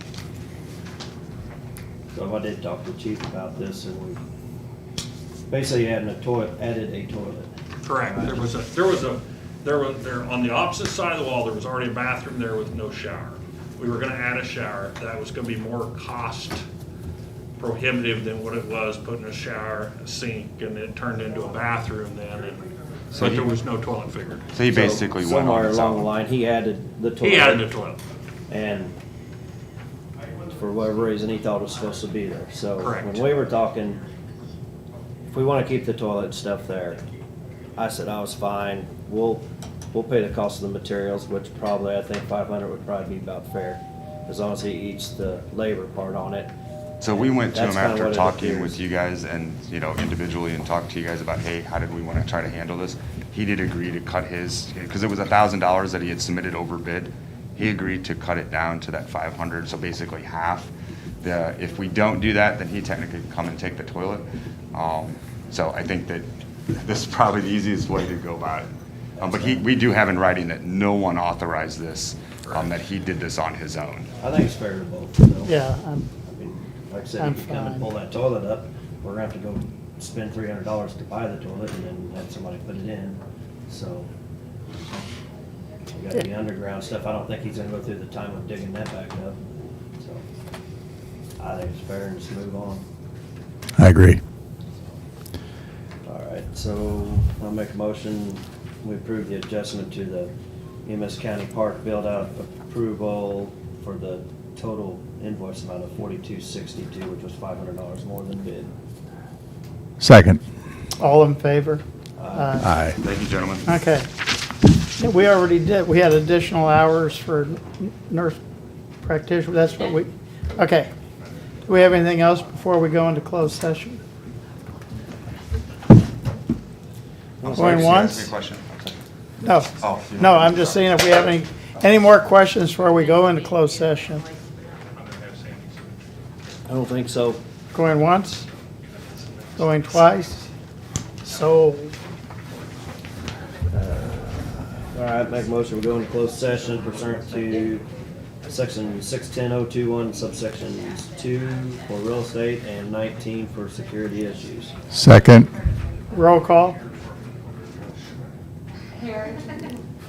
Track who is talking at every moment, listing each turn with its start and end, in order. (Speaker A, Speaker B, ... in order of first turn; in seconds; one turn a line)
Speaker A: 2.1-4.2
Speaker A: 5.5-8.5
Speaker B: 7.8-16.6
Speaker B: 17.6-24.5
Speaker C: 23.1-23.5
Speaker C: 24.5-26.1
Speaker A: 24.7-27.7
Speaker B: 27.2-28.0
Speaker A: 28.5-28.9
Speaker A: 30.5-34.0
Speaker B: 32.8-33.2
Speaker A: 35.3-37.0
Speaker A: 37.7-46.5
Speaker C: 47.0-74.1
Speaker A: 47.5-48.8
Speaker A: 69.2-69.6
Speaker A: 74.2-75.5
Speaker D: 75.5-76.1
Speaker A: 76.2-84.1
Speaker D: 77.2-77.9
Speaker A: 85.9-89.4
Speaker A: 90.0-90.2
Speaker A: 91.4-92.8
Speaker E: 93.8-94.2
Speaker A: 96.0-100.3
Speaker A: 100.8-108.7
Speaker E: 110.0-110.4
Speaker D: 111.0-111.8
Speaker A: 112.2-112.7
Speaker D: 112.3-112.7
Speaker E: 112.6-113.0
Speaker C: 113.0-113.7
Speaker D: 113.7-114.1
Speaker D: 114.9-118.4
Speaker D: 119.0-120.9
Speaker D: 121.7-124.0
Speaker A: 127.4-128.0
Speaker C: 127.4-129.0
Speaker D: 127.5-128.3
Speaker D: 129.4-134.2
Speaker C: 129.8-131.0
Speaker F: 132.8-134.8
Speaker A: 136.6-137.4
Speaker D: 137.7-138.4
Speaker D: 139.6-140.4
Speaker D: 141.2-141.9
Speaker A: 143.7-147.9
Speaker A: 148.4-154.8
Speaker E: 154.9-155.5
Speaker F: 154.9-156.2
Speaker D: 156.1-156.8
Speaker F: 159.0-159.6